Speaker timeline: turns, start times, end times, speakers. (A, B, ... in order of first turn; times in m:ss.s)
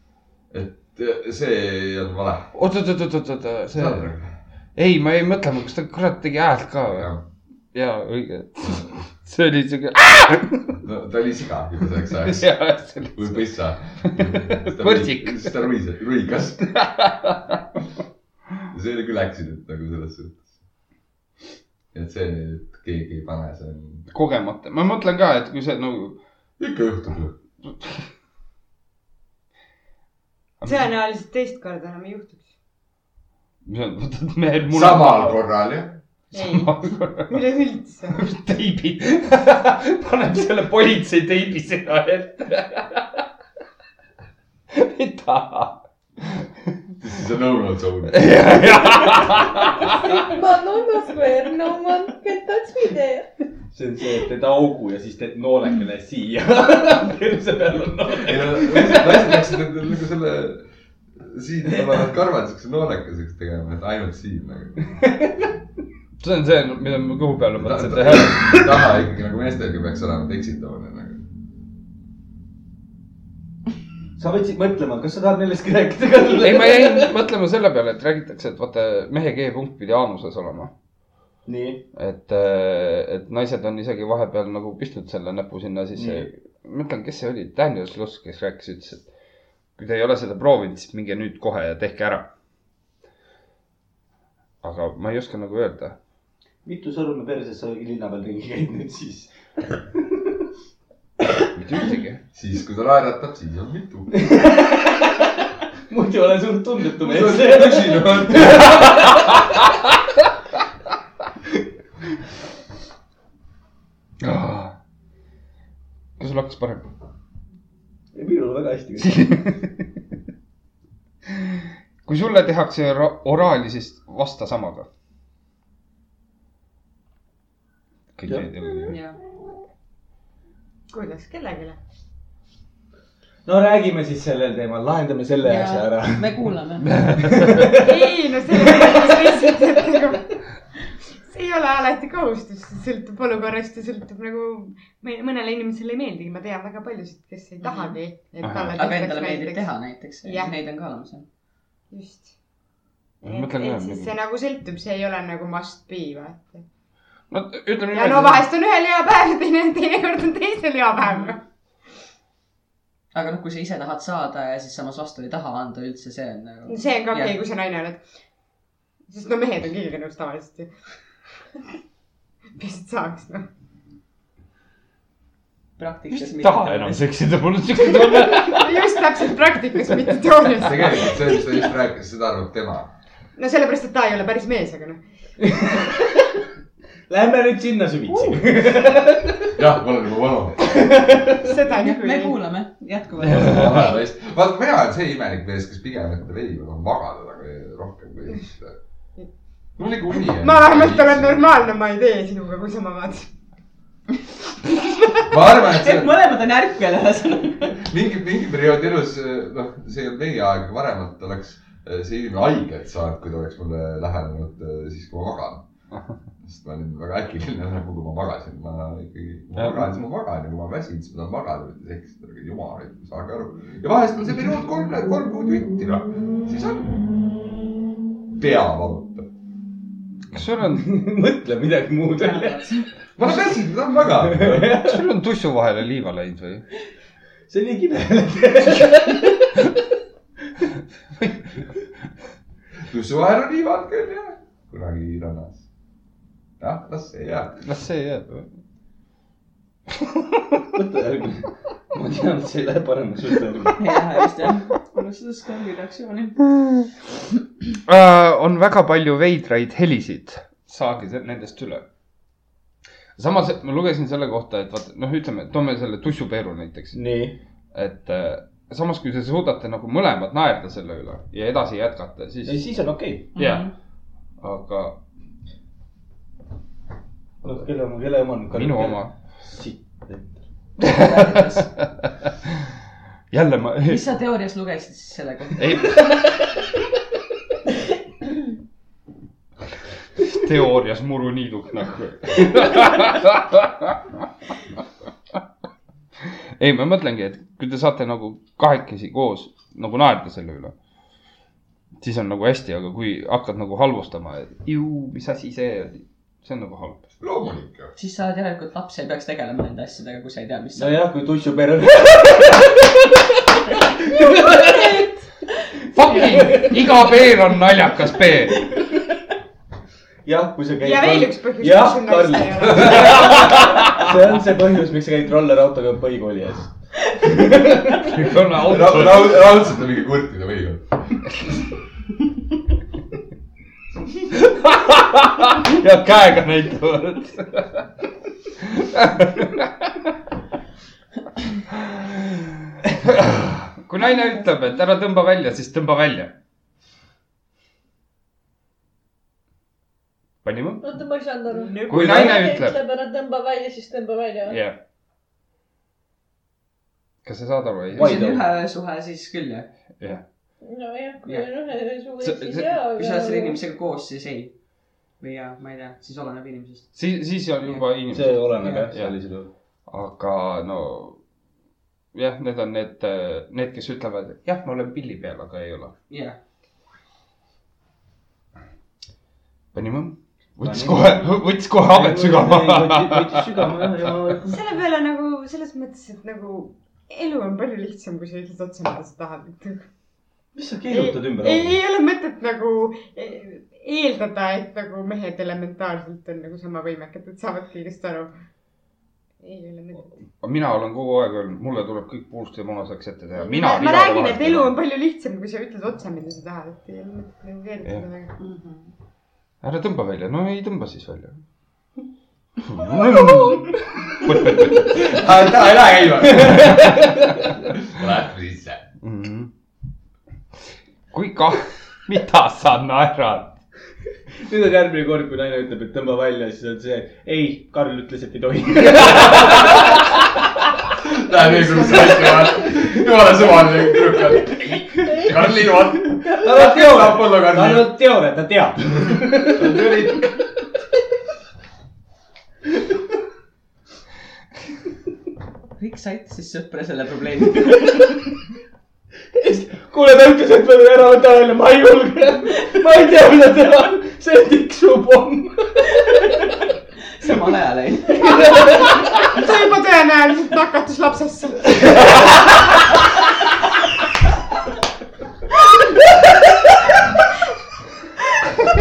0:00.5-0:02.5 A
0:02.5-0:04.1 B
0:03.7-0:04.3 A
0:04.8-0:07.1 B
0:06.9-0:07.2 A
0:07.7-0:10.8 B
0:10.8-0:12.5 A
0:12.2-0:13.5 B
0:13.1-0:16.6 A
0:14.0-0:15.7 B
0:16.6-0:17.6 B
0:18.7-0:20.4 A
0:21.9-0:24.0 A
0:24.1-0:26.2 B
0:26.6-0:27.3 A
0:27.7-0:28.0 B
0:30.6-0:30.9 B
0:30.6-0:32.4 C
0:33.6-0:35.4 B
0:34.7-0:35.9 A
0:36.3-0:37.4 B
0:36.3-0:38.2 C
0:38.1-0:43.2 B
0:44.7-0:46.5 B
0:47.0-0:48.3 A
0:48.1-0:50.1 B
0:49.9-0:53.3 D
0:53.7-0:59.6 E
0:58.2-1:00.6 A
1:01.2-1:04.8 A
1:05.0-1:05.5 E
1:06.2-1:08.4 B
1:07.6-1:11.2 A
1:14.2-1:17.1 E
1:16.4-1:20.7 B
1:21.4-1:21.8 E
1:21.9-1:29.0 B
1:26.0-1:26.3 E
1:29.8-1:32.3 B
1:34.6-1:36.0 B
1:36.6-1:40.5 E
1:41.5-1:42.2 B
1:42.3-1:44.2 A
1:44.1-1:49.4 E
1:47.0-1:49.1 A
1:48.4-1:49.6 B
1:54.2-1:54.7 B
1:56.2-1:56.8 B
1:58.1-1:59.5 E
1:59.0-1:59.5 B
2:02.0-2:04.9 B
2:08.2-2:09.0 B
2:08.9-2:09.2 F
2:10.9-2:11.8 C
2:13.4-2:16.5 E
2:15.4-2:17.2 F
2:17.0-2:17.6 B
2:17.1-2:19.4 E
2:17.7-2:20.4 C
2:21.2-2:29.7 C
2:27.6-2:28.0 F
2:28.4-2:28.8 B
2:28.8-2:31.2 F
2:30.2-2:30.5 C
2:31.9-2:32.3 C
2:33.2-2:34.1 B
2:33.2-2:36.6 C
2:37.3-2:38.5 B
2:37.9-2:41.4 C
2:43.1-2:47.4 F
2:46.7-2:48.0 C
2:49.1-2:50.7 C
2:52.6-2:53.4 C
2:55.8-2:57.1 F
2:56.1-2:58.9 B
2:58.2-3:01.4 C
2:59.8-3:00.5 B
3:00.6-3:02.9 A
3:03.4-3:05.0 C
3:05.4-3:06.4 E
3:07.1-3:09.6 E
3:09.6-3:10.8 A
3:10.6-3:11.6 E
3:11.4-3:12.4 C
3:11.6-3:14.0 F
3:13.2-3:18.8 A
3:19.8-3:21.5 A
3:20.3-3:23.3 C
3:25.3-3:26.2 A
3:25.6-3:27.8 F
3:27.8-3:35.6 A
3:36.4-3:47.0 A
3:39.5-3:40.0 B
3:48.3-3:49.3 A
3:50.3-3:51.0 B
3:50.8-3:52.8 E
3:52.1-3:52.9 F
3:53.2-3:54.8 A
3:54.2-3:55.0 E
3:54.8-3:56.6 B
3:57.5-3:59.3 E
4:01.2-4:01.5 B
4:02.9-4:05.6 A
4:06.6-4:07.6 A
4:07.6-4:08.5 B
4:10.7-4:13.9 E
4:13.8-4:16.4 F
4:17.9-4:21.8 B
4:23.2-4:27.0 B
4:26.9-4:27.4 E
4:27.7-4:32.6 B
4:32.4-4:33.3 E
4:33.3-4:33.7 F
4:33.4-4:33.7 B
4:34.4-4:35.0 B
4:37.4-4:40.4 E
4:38.5-4:39.1 B
4:40.8-4:41.2 B
4:40.9-4:41.7 F
4:43.3-4:44.0 B
4:43.8-4:46.1 F
4:45.6-4:46.1 B
4:50.2-4:54.0 B
4:56.3-5:00.7 B
5:02.0-5:07.0 B
5:07.2-5:07.9 A
5:08.0-5:11.0 F
5:10.8-5:13.4 E
5:14.0-5:15.1 E
5:15.9-5:18.6 B
5:16.2-5:16.8 E
5:20.2-5:28.1 E
5:20.8-5:23.7 C
5:22.8-5:24.1 B
5:28.0-5:29.4 B
5:28.6-5:30.9 A
5:34.3-5:37.8 B
5:38.6-5:40.0 B
5:41.7-5:46.3 B
5:50.4-5:50.8 B
5:50.8-5:54.6 D
5:51.5-5:52.4 F
5:51.9-5:52.8 B
5:54.5-5:54.8 B
5:57.2-5:58.2 B
5:57.9-5:58.4 E
5:58.0-5:59.7 F
6:00.6-6:03.6 D
6:02.2-6:02.7 B
6:02.9-6:04.5 F
6:05.2-6:06.9 F
6:06.9-6:09.1 B
6:08.1-6:09.5 E
6:09.9-6:11.2 B
6:12.1-6:15.9 B
6:16.1-6:16.4 F
6:19.7-6:23.5 B
6:20.6-6:24.6 E
6:24.5-6:29.8 C
6:30.5-6:31.8 E
6:30.9-6:38.3 C
6:39.4-6:40.1 C
6:40.4-6:44.7 B
6:43.4-6:48.3 C
6:48.4-6:48.9 F
6:49.6-6:51.3 B
6:52.6-6:54.9 B
6:53.2-6:53.6 D
6:54.7-6:57.0 A
6:56.2-6:57.3 E
6:56.5-6:57.2 B
6:57.7-6:58.8 A
6:59.0-6:59.5 B
7:01.1-7:03.6 B
7:04.3-7:09.9 E
7:11.0-7:17.9 A
7:15.1-7:15.5 D
7:16.2-7:16.7 D
7:16.2-7:20.4 E
7:19.5-7:20.3 A
7:25.8-7:28.3 F
7:29.3-7:36.0 E
7:36.1-7:36.4 F
7:37.2-7:38.9 F
7:39.2-7:42.4 C